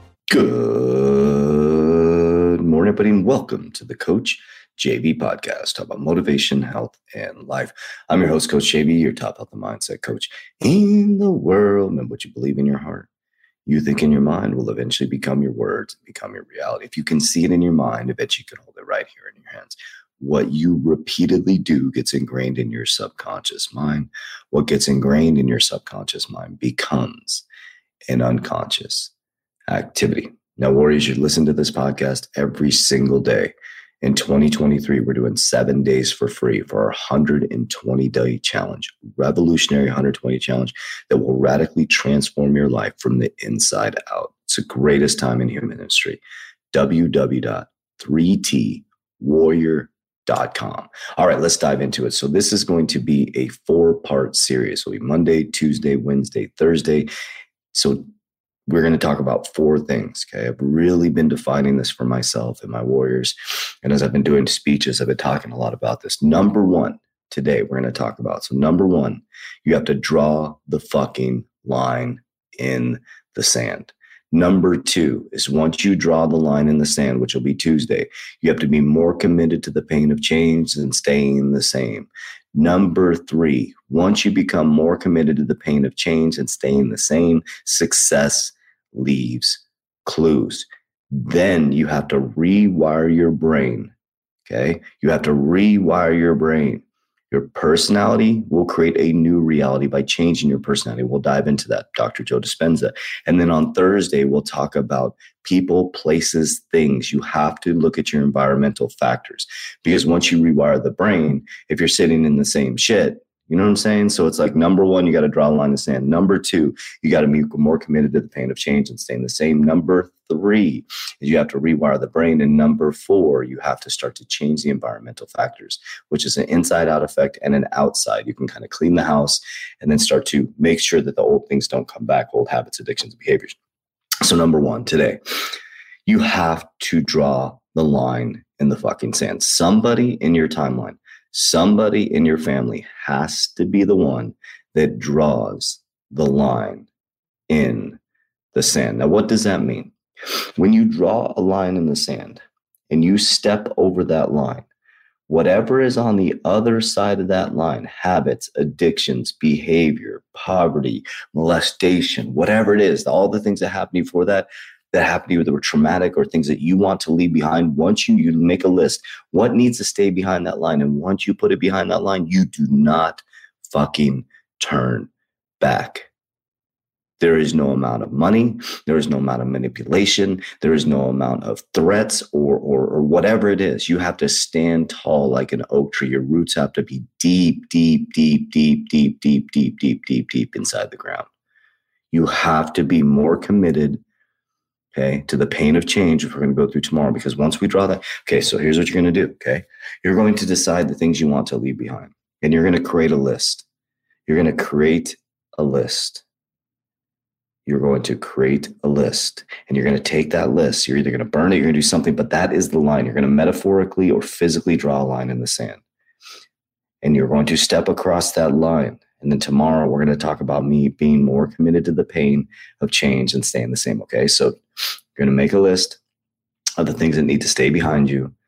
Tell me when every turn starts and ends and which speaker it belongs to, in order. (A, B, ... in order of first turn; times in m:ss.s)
0:00.3-0:13.1 A
0:13.7-0:27.4 A
0:28.1-0:29.1 A
0:29.7-0:46.2 A
0:46.7-0:57.1 A
0:57.7-0:58.1 A
0:58.7-1:33.9 A
1:34.4-2:13.6 A
2:14.2-2:15.2 A
2:16.1-2:26.9 A
2:27.5-2:28.0 A
2:28.5-2:29.9 A
2:30.6-2:34.7 A
2:35.3-2:56.1 A
2:57.2-3:11.3 A
3:12.1-3:14.0 A
3:14.9-3:23.7 A
3:24.3-3:26.2 A
3:27.7-3:35.8 A
3:37.0-3:44.5 A
3:45.2-3:46.0 A
3:46.8-3:48.3 A